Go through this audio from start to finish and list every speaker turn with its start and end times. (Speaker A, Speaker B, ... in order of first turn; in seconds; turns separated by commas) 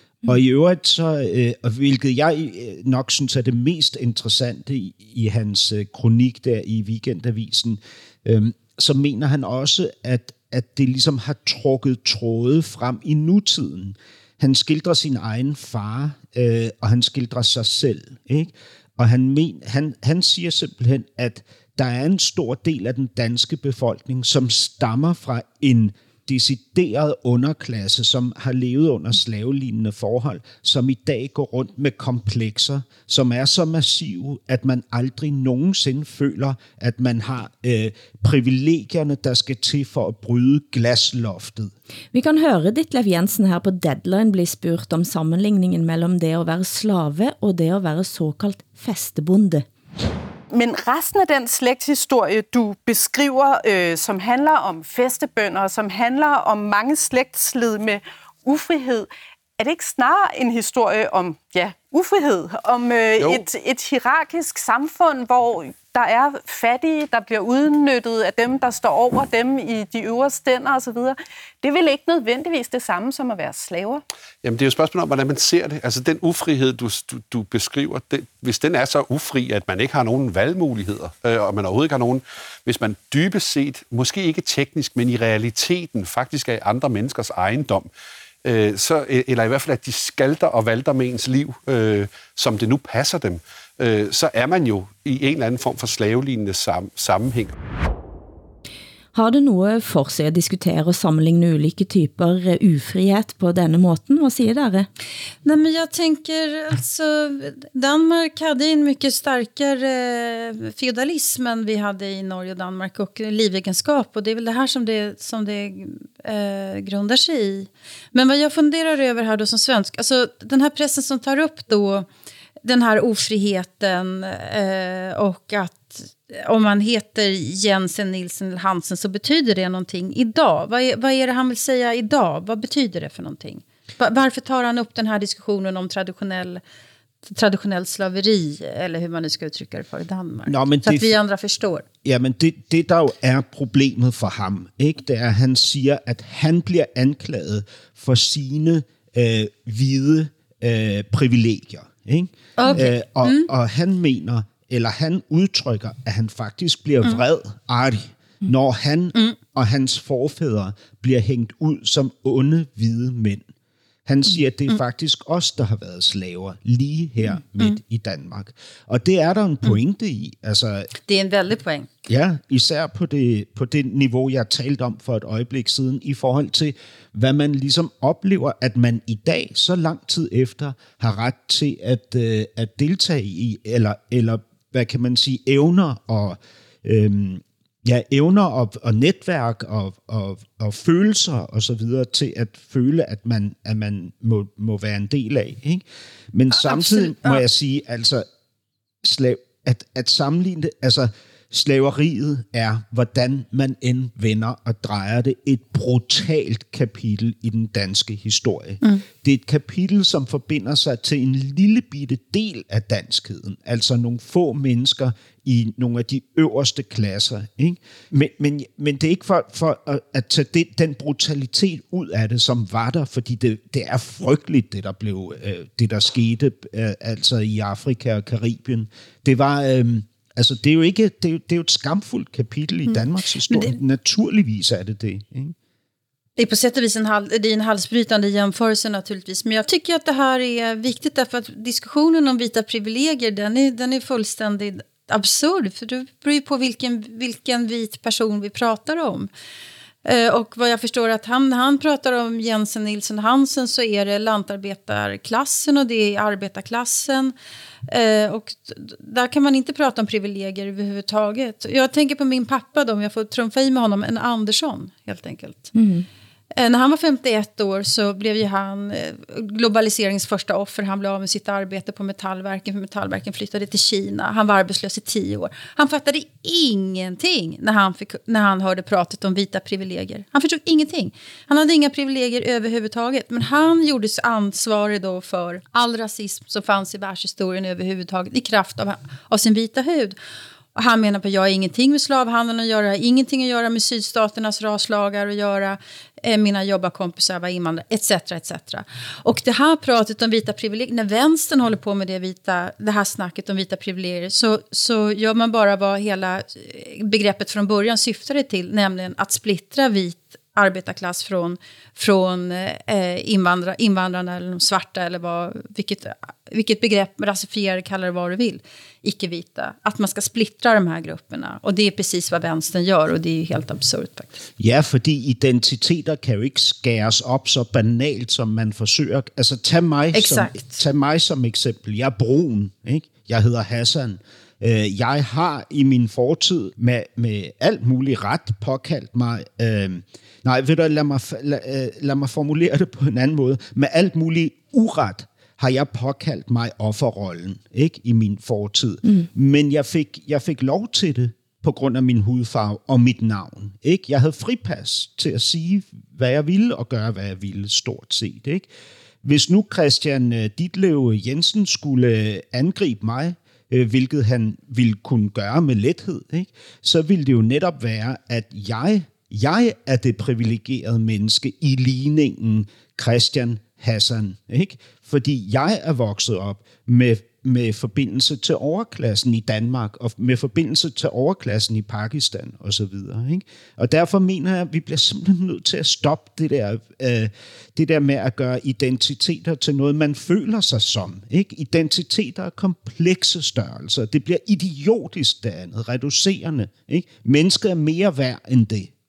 Speaker A: 0.3-41.7, Speaker B: 42.1-49.6, Speaker C: 50.5-74.0, Speaker D: 74.4-87.9, Speaker D: 88.4-97.6, Speaker B: 99.1-104.9, Speaker E: 105.4-122.1, Speaker E: 122.6-136.6, Speaker E: 137.2-141.8, Speaker A: 140.5-141.2, Speaker A: 142.0-163.5, Speaker E: 152.6-153.5, Speaker A: 164.1-170.9, Speaker E: 167.3-167.8, Speaker E: 171.1-171.9, Speaker A: 172.1-195.8, Speaker A: 196.3-198.2, Speaker E: 196.5-197.4, Speaker A: 199.0-235.6, Speaker E: 232.9-233.8, Speaker E: 236.4-249.3, Speaker E: 250.1-257.3, Speaker E: 257.9-265.7, Speaker B: 265.8-266.1, Speaker E: 266.6-290.2, Speaker E: 290.8-324.4, Speaker A: 324.6-358.7, Speaker E: 330.1-330.8, Speaker A: 359.2-398.9